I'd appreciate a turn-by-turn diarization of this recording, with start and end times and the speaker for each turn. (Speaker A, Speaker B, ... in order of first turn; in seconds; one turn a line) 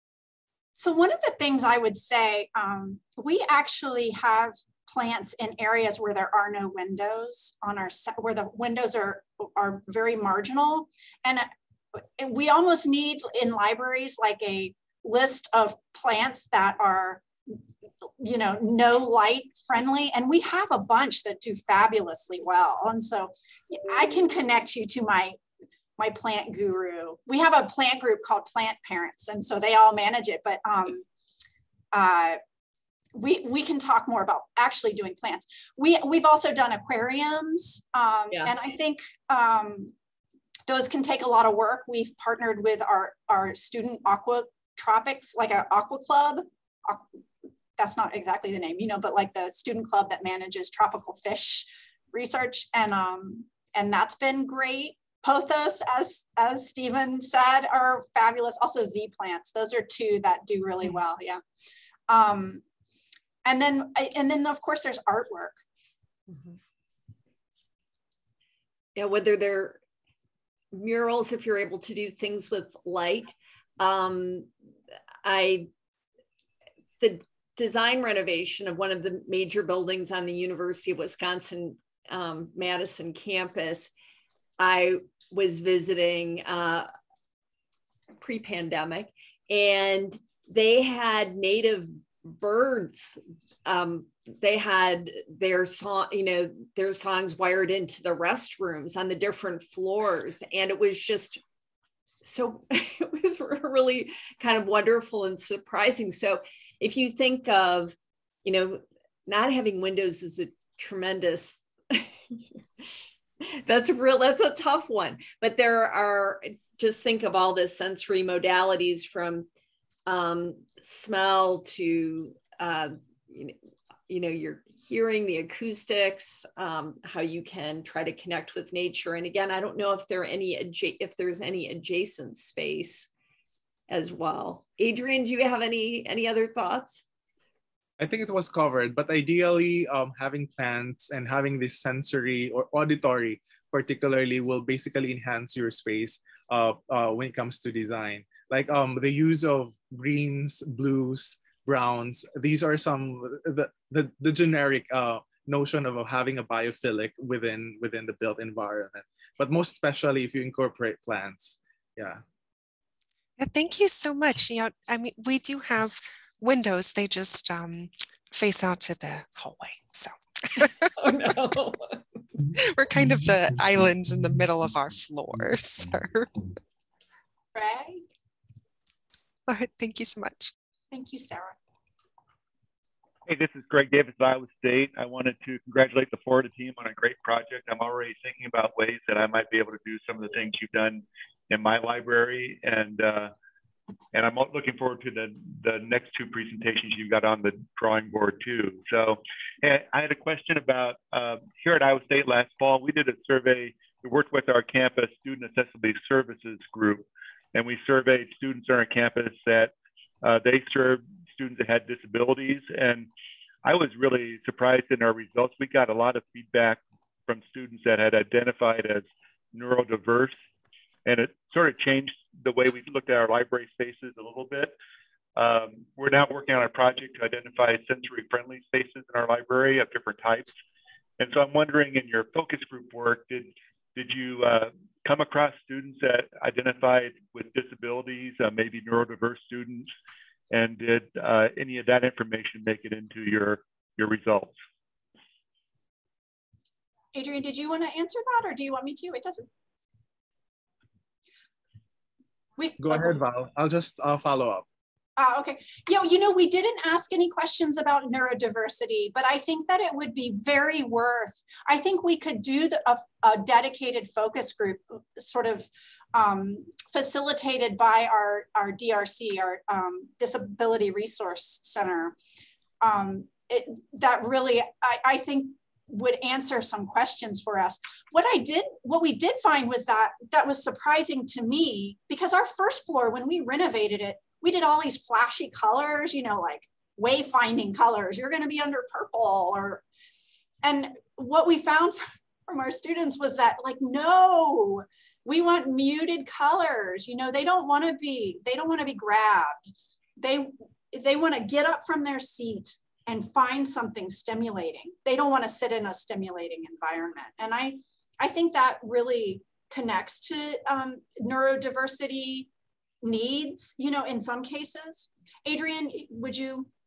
Speaker A: 0.8-17.6
Speaker A: 18.2-25.4
Speaker A: 26.0-31.1
Speaker A: 31.9-32.4
Speaker A: 33.1-39.9
Speaker A: 40.7-47.1
Speaker A: 47.8-61.4
Speaker A: 62.1-62.6
Speaker A: 63.4-65.6
Speaker B: 69.0-69.8
Speaker B: 70.7-74.5
Speaker B: 75.2-75.7
Speaker B: 77.0-83.9
Speaker B: 84.6-86.9
Speaker B: 88.2-101.4
Speaker B: 102.2-113.0
Speaker B: 113.6-119.5
Speaker B: 120.1-123.5
Speaker B: 124.1-133.1
Speaker B: 133.9-137.0
Speaker C: 138.0-162.2
Speaker D: 163.4-170.9
Speaker B: 171.0-172.0
Speaker D: 172.6-176.4
Speaker A: 177.6-178.1
Speaker D: 179.5-180.5
Speaker A: 180.9-181.6
Speaker E: 183.3-193.3
Speaker E: 194.1-213.1
Speaker E: 213.6-220.3
Speaker E: 221.1-224.7
Speaker E: 225.3-230.5
Speaker E: 231.2-239.9
Speaker E: 240.5-244.6
Speaker A: 247.1-249.4
Speaker A: 252.6-253.2
Speaker C: 252.8-254.7
Speaker A: 255.2-272.2
Speaker A: 272.8-289.8
Speaker A: 290.6-312.5
Speaker A: 313.0-316.7